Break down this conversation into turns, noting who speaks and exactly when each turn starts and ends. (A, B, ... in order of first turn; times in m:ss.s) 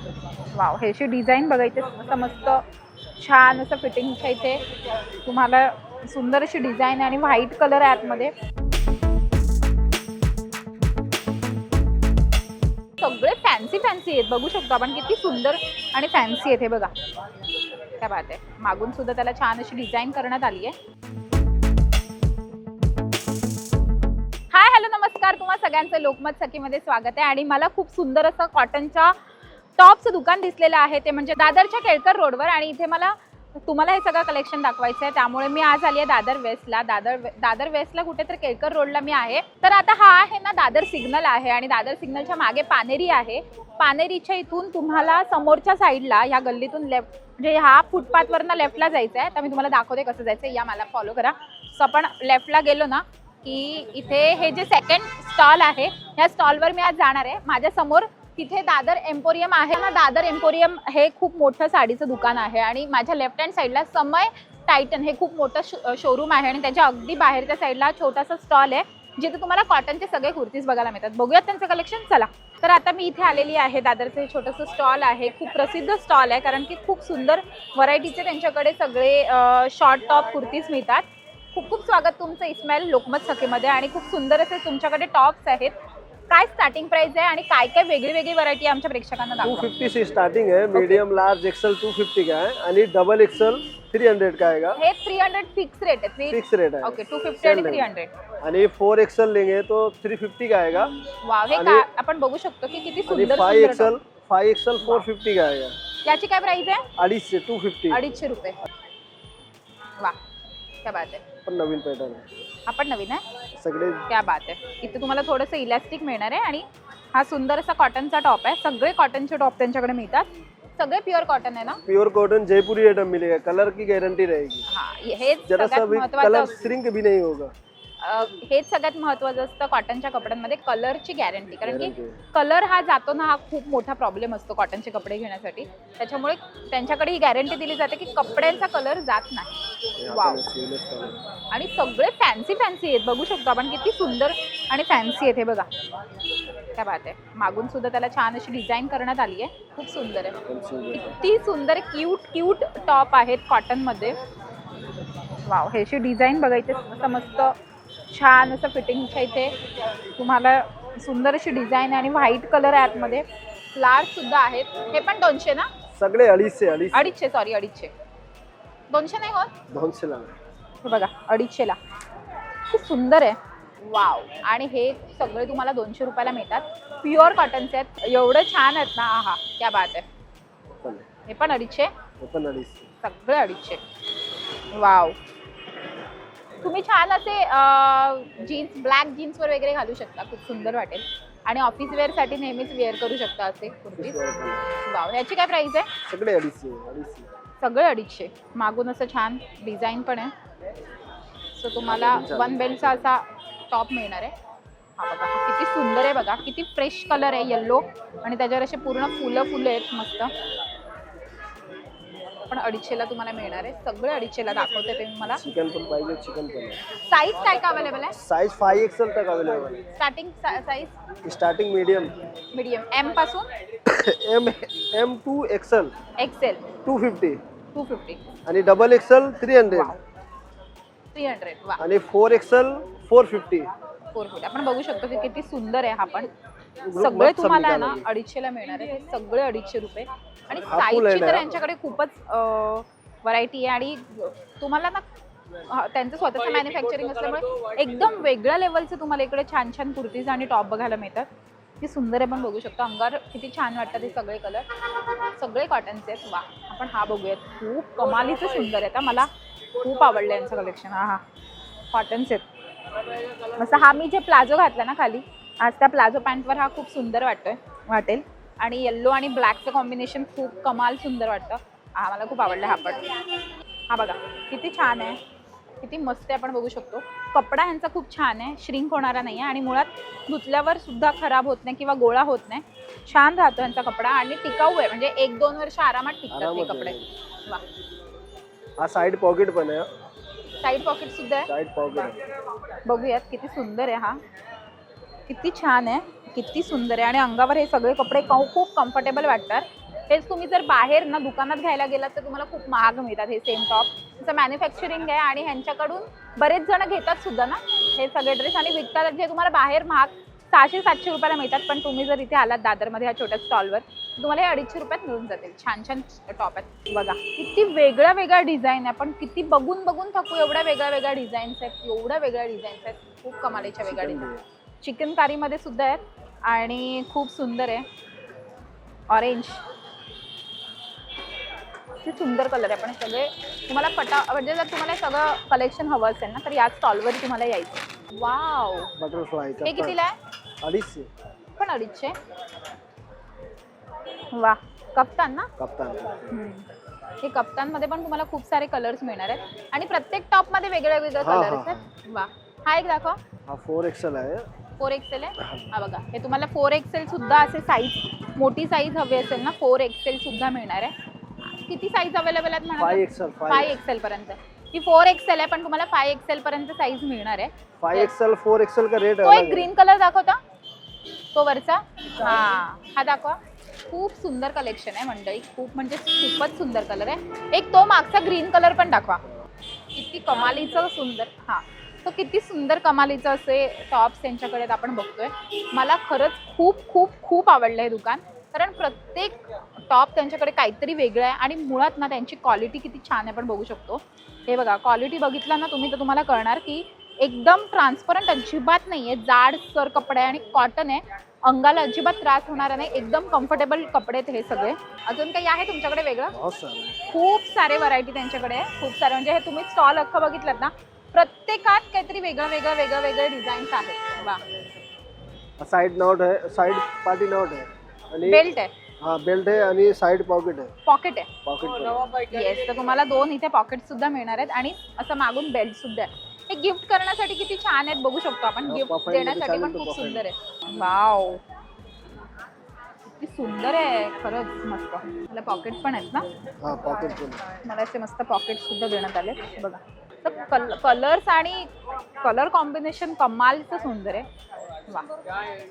0:00.5-0:02.6 A
0:03.2-0:04.6 A
0:05.2-0:08.3 A
0:13.0-0:16.9 A
0:18.0-0:20.7 A
0:24.5-0:29.2 A
0:29.8-1:25.8 A
1:26.3-1:29.7 A
1:29.4-1:34.8 B
1:30.7-1:31.0 A
1:34.8-1:38.1 A
1:36.3-1:37.9 B
1:38.4-1:40.9 B
1:41.2-1:43.9 A
1:41.5-1:41.8 B
1:43.1-1:45.8 B
1:46.0-1:46.8 A
1:47.0-1:48.1 B
1:47.9-1:48.6 A
1:50.8-1:51.2 A
1:51.4-1:52.2 B
1:52.7-1:53.2 A
1:53.6-1:54.1 B
1:54.1-2:01.8 A
2:01.8-2:04.6 B
2:04.7-2:06.6 A
2:05.4-2:07.5 B
2:08.0-2:19.6 A
2:11.6-2:12.2 B
2:20.0-2:21.2 B
2:20.1-2:20.5 A
2:21.5-2:25.7 A
2:26.7-2:30.4 A
2:30.4-2:31.2 B
2:30.9-2:34.2 A
2:35.4-2:37.5 A
2:38.1-2:39.6 A
2:40.1-2:45.7 A
2:45.9-2:47.1 B
2:46.9-2:47.9 A
2:48.9-2:49.5 A
2:49.7-2:50.3 B
2:50.8-2:51.8 A
2:52.7-3:00.0 A
3:00.8-3:01.0 B
3:01.3-3:01.9 A
3:02.2-3:02.9 B
3:03.0-3:03.8 A
3:04.7-3:05.2 A
3:06.6-3:14.2 A
3:14.0-3:14.7 B
3:14.8-3:15.9 A
3:16.0-3:17.3 B
3:17.6-3:20.3 A
3:21.5-3:24.3 A
3:21.8-3:23.1 B
3:25.0-3:30.3 A
3:32.5-3:35.4 A
3:35.2-3:36.8 B
3:37.0-3:38.2 A
3:38.1-3:39.8 B
3:39.9-3:41.0 A
3:41.2-3:42.2 B
3:42.5-3:43.5 A
3:43.8-3:45.9 B
3:46.2-3:46.7 A
3:46.8-3:47.4 B
3:47.7-3:48.2 A
3:48.4-3:50.0 B
3:49.7-3:50.0 A
3:51.1-3:51.8 A
3:51.8-3:53.7 B
3:54.1-3:56.3 A
3:56.8-3:58.1 B
3:56.9-4:05.0 A
4:00.5-4:01.6 B
4:05.6-4:11.3 A
4:11.8-4:14.6 A
4:15.4-4:21.2 A
4:21.9-4:22.4 A
4:23.5-4:33.2 A
4:33.9-4:35.2 A
4:35.8-4:47.6 A
4:46.3-4:47.0 B
4:48.8-4:49.9 B
4:50.6-4:51.5 A
4:51.4-4:52.2 B
4:52.8-4:54.2 A
4:55.3-5:24.3 A
5:23.5-5:24.4 B
5:24.8-5:27.8 A
5:29.1-5:29.6 A
5:32.0-5:38.9 A
5:39.0-5:40.0 B
5:39.6-5:40.2 A
5:40.6-5:41.1 B
5:41.6-5:42.1 A
5:44.3-5:45.5 A
5:45.6-5:46.5 B
5:46.3-5:46.6 A
5:47.2-5:53.2 A
5:51.2-5:51.9 B
5:53.5-5:54.5 B
5:54.8-6:00.9 A
5:55.4-5:55.7 B
6:01.4-6:08.1 A
6:02.8-6:03.8 B
6:07.8-6:09.7 B
6:09.2-6:10.4 A
6:11.3-6:13.4 A
6:13.9-6:19.2 A
6:19.9-6:46.3 A
6:46.3-6:47.0 B
6:47.1-6:54.4 A
6:55.6-6:58.5 B
6:58.2-6:58.7 A
6:59.0-7:00.7 B
7:00.8-7:01.3 A
7:01.4-7:02.2 B
7:02.2-7:11.4 A
7:08.7-7:10.3 B
7:13.0-7:16.2 A
7:16.6-7:17.4 B
7:17.6-7:24.3 A